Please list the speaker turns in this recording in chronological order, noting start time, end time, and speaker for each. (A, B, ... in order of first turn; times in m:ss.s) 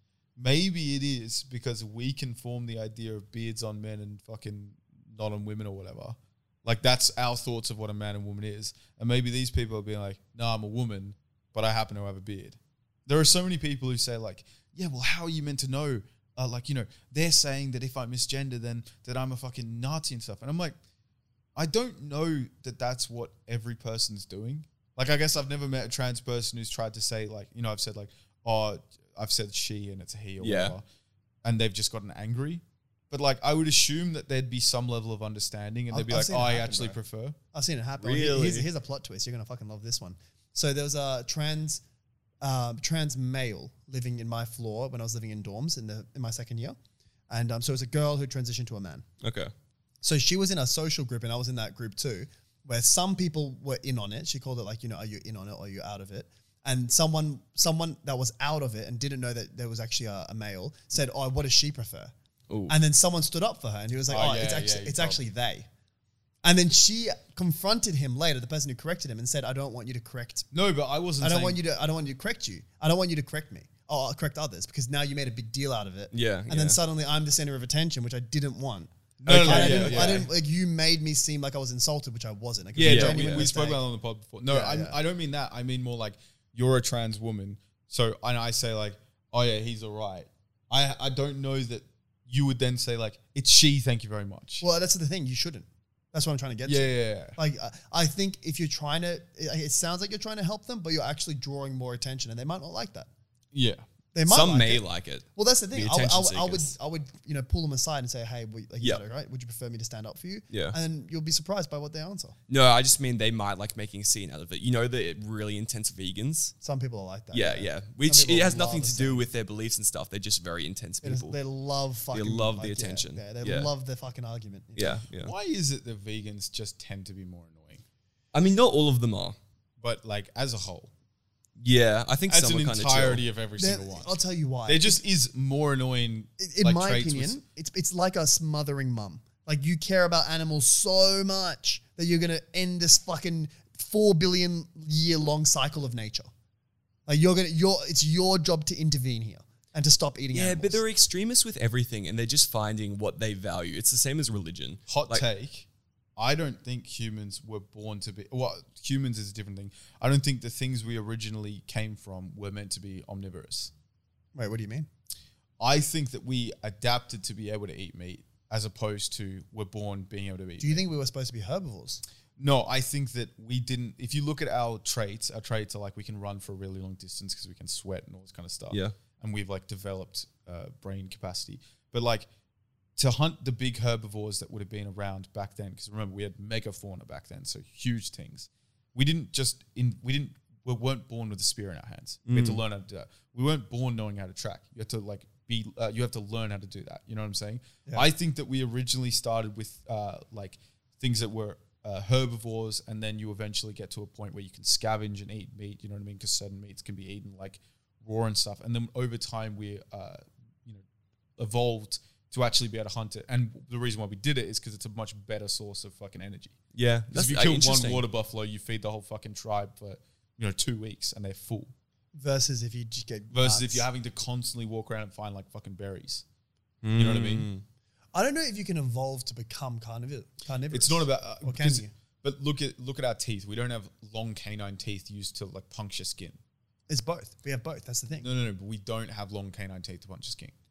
0:00.4-0:20.8 A
0:21.6-0:30.8 A
0:30.4-0:30.7 B
0:31.4-0:37.4 A
0:35.9-0:37.0 C
0:37.5-0:41.8 C
0:38.0-0:38.7 B
0:42.4-0:46.8 C
0:47.3-0:49.0 C
0:49.2-0:49.5 B
0:50.0-1:02.1 C
1:02.5-1:02.7 B
1:02.7-1:05.7 C
1:04.1-1:05.2 A
1:06.4-1:10.5 C
1:10.5-1:11.6 A
1:11.2-1:23.8 C
1:16.1-1:16.8 B
1:19.2-1:20.3 A
1:19.3-1:20.3 B
1:22.8-1:34.6 A
1:22.8-1:23.5 B
1:24.5-1:25.0 C
1:34.6-1:43.1 C
1:36.6-1:37.4 A
1:43.5-1:43.8 A
1:44.1-1:44.8 C
1:44.3-1:46.7 B
1:45.4-1:52.4 C
1:50.5-1:50.8 B
1:52.5-1:56.5 B
1:56.6-1:59.2 C
1:57.3-2:01.4 B
2:01.0-2:05.0 C
2:02.1-2:03.7 B
2:04.8-2:05.3 B
2:05.2-2:07.8 A
2:08.3-2:09.4 B
2:09.8-2:10.9 A
2:11.6-2:13.2 B
2:12.3-2:14.1 A
2:13.6-2:15.0 C
2:14.7-2:17.4 A
2:16.4-2:26.3 C
2:27.1-2:30.8 C
2:30.3-2:35.2 B
2:34.9-2:43.7 A
2:44.3-2:44.9 C
2:45.6-2:50.8 A
2:50.6-2:52.0 C
2:52.4-3:02.3 A
3:03.0-3:30.8 A
3:12.3-3:12.6 B
3:31.4-3:36.6 A
3:36.7-3:38.0 B
3:37.1-3:41.7 A
3:42.1-3:43.9 C
3:43.3-3:46.2 A
3:46.8-3:47.6 B
3:46.9-3:47.5 A
3:48.1-3:51.9 C
3:50.7-3:56.4 A
3:56.9-3:58.3 C
3:58.2-4:00.5 A